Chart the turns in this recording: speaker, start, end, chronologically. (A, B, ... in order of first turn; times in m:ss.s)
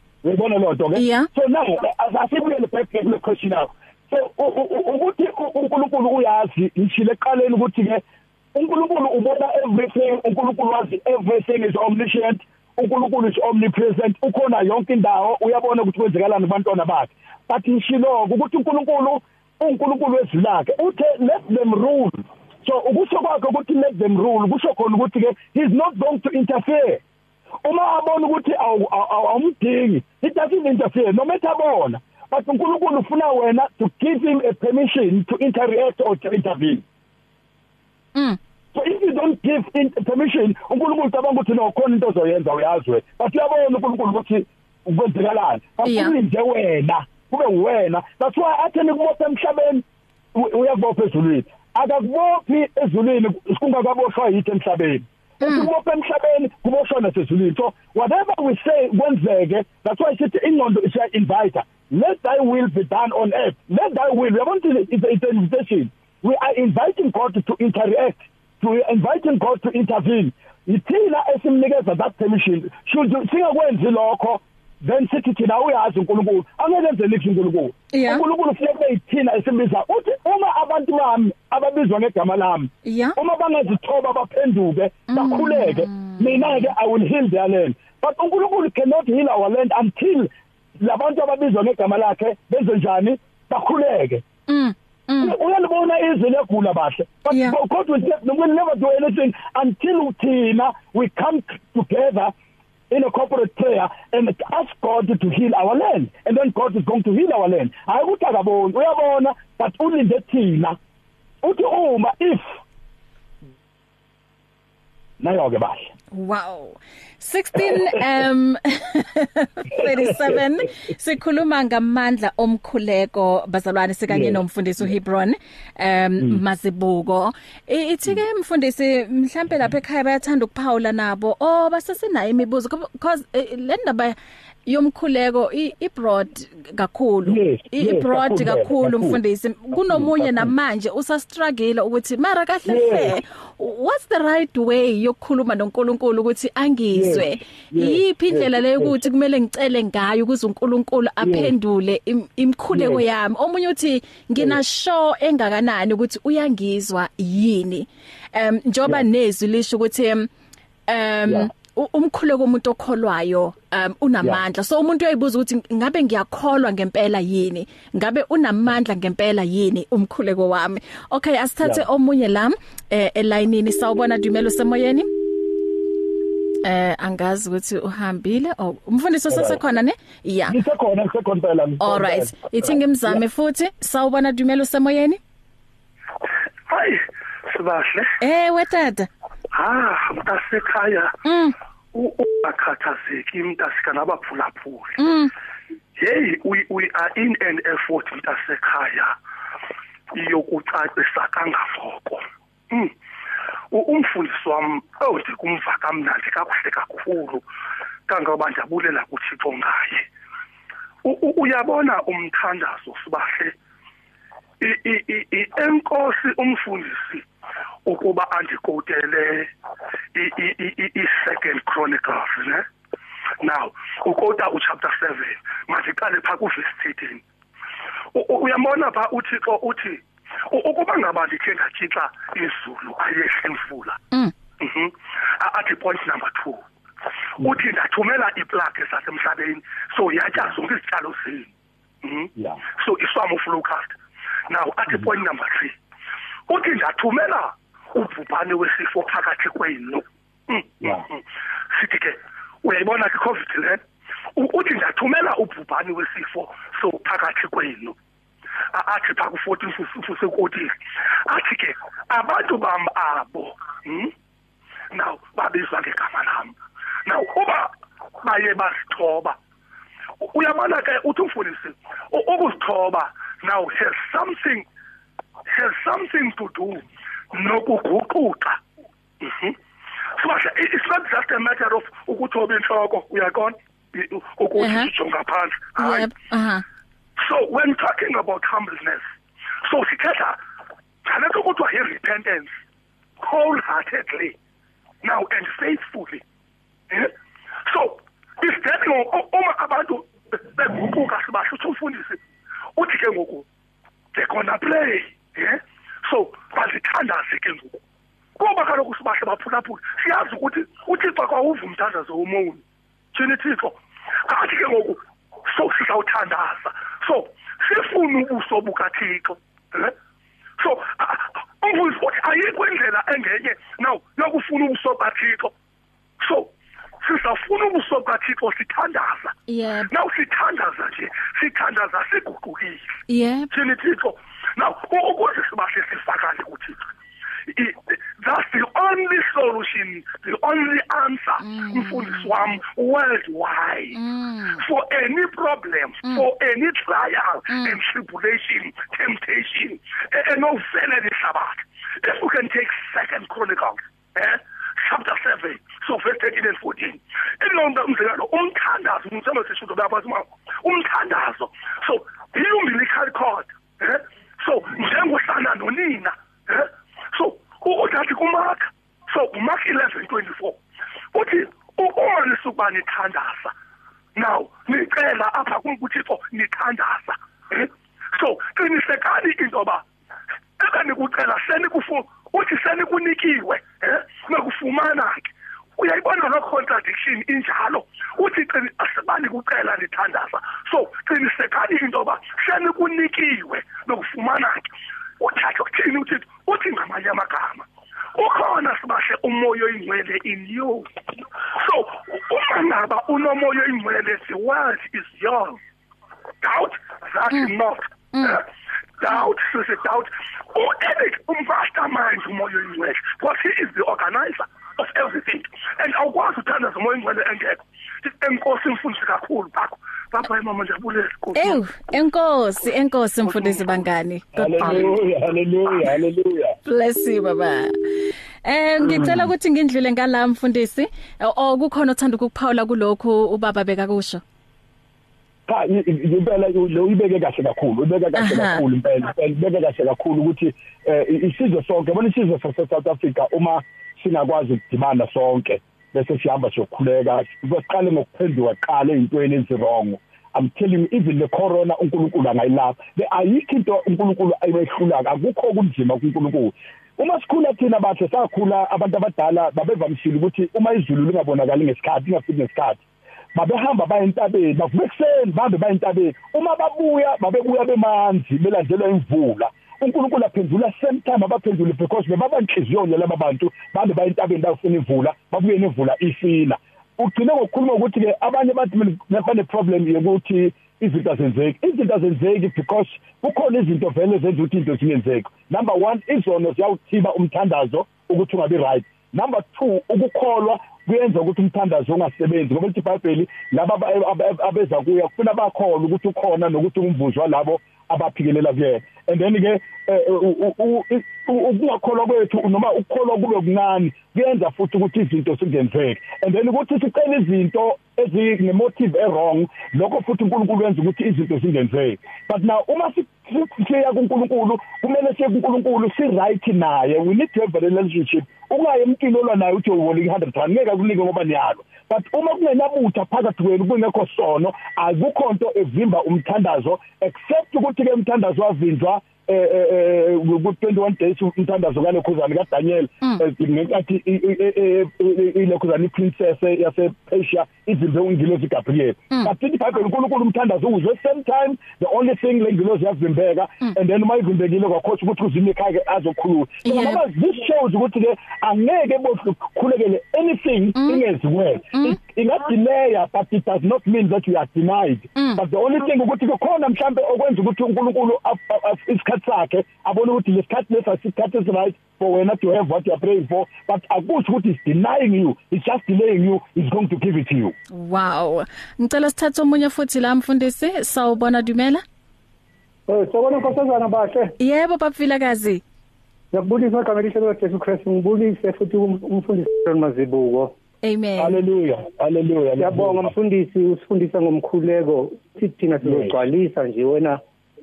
0:00.2-0:08.0 A
0:00.9-0:01.3 B
0:08.5-0:27.0 A
0:27.6-0:36.8 A
0:38.7-1:34.2 A
0:45.8-0:46.1 B
0:55.4-0:55.7 B
1:17.9-1:18.2 B
1:22.8-1:23.2 B
1:25.1-1:26.7 B
1:34.5-1:35.3 B
1:35.2-1:42.3 A
1:37.3-1:37.6 B
1:42.9-1:50.8 A
1:51.4-1:52.4 A
1:55.2-1:55.9 A
1:56.1-2:40.3 B
1:57.5-1:58.0 A
1:59.7-2:00.4 A
2:04.1-2:04.9 A
2:17.2-2:19.2 A
2:19.7-2:20.5 A
2:22.6-2:23.2 A
2:26.9-2:29.0 A
2:31.2-2:31.5 A
2:32.7-2:33.0 A
2:40.9-2:55.1 B
2:56.6-3:00.6 B
2:59.3-2:59.6 A
3:00.5-3:03.2 A
3:01.8-3:05.2 B
3:06.7-3:08.2 C
3:08.2-3:09.1 B
3:09.5-3:11.2 C
3:11.2-3:11.5 B
3:11.9-3:15.0 C
3:15.0-3:15.3 B
3:16.0-3:19.1 C
3:20.1-3:22.9 C
3:23.7-3:27.4 C
3:28.1-3:30.0 C
3:31.0-3:33.5 C
3:34.6-3:37.2 C
3:37.8-3:39.5 C
3:40.1-3:42.6 C
3:43.4-3:47.2 C
3:48.1-3:54.0 C
3:54.6-3:56.6 C
3:57.4-4:01.5 C
4:02.0-4:03.9 C
4:02.4-4:02.6 A
4:04.5-4:05.7 C
4:06.5-4:11.2 C
4:10.8-4:11.1 A
4:11.7-4:13.8 C
4:14.4-4:18.0 C
4:18.7-4:20.7 C
4:21.2-4:24.1 C
4:24.9-4:26.5 C
4:27.0-4:29.4 C
4:30.2-4:34.6 C
4:35.5-4:38.6 C
4:39.2-4:39.6 C
4:40.2-4:46.1 C
4:44.6-4:44.9 B
4:45.8-4:46.6 B
4:47.2-4:49.0 C
4:49.6-4:50.4 C
4:51.0-4:52.5 C
4:53.2-4:54.3 C
4:55.0-4:56.2 C
4:57.7-5:02.2 C
5:02.8-5:03.4 C
5:04.1-5:07.8 C
5:08.4-5:12.6 C
5:13.1-5:19.9 C
5:20.6-5:25.5 C
5:26.2-5:26.5 C
5:27.0-5:29.3 C
5:29.5-5:29.9 B
5:29.9-5:32.8 C
5:33.1-5:33.5 B
5:33.5-5:36.9 C
5:37.5-5:44.0 C
5:41.4-5:42.2 B
5:43.9-5:44.6 B
5:44.6-6:10.6 C
5:47.5-5:47.8 B
6:11.1-6:13.5 C
6:14.2-6:19.8 C
6:20.6-6:40.9 C
6:41.5-6:45.6 C
6:46.4-6:48.4 C
6:48.1-6:48.4 B
6:49.0-7:01.6 C
7:01.4-7:04.8 B
7:03.3-7:03.6 C
7:04.4-7:06.6 A
7:04.6-7:05.0 C
7:06.6-7:07.7 B
7:08.4-7:14.2 B
7:08.8-7:09.3 A
7:15.5-7:42.8 A
7:18.1-7:18.6 B
7:43.3-9:27.5 A
9:06.6-9:07.0 B
9:10.8-9:11.0 B
9:15.2-9:15.4 B
9:27.7-9:31.8 B
9:32.9-9:34.3 D
9:34.4-9:35.6 B
9:36.3-9:40.5 D
9:40.8-9:41.4 B
9:41.2-9:43.1 A
9:42.6-9:47.2 D
9:45.8-9:46.2 A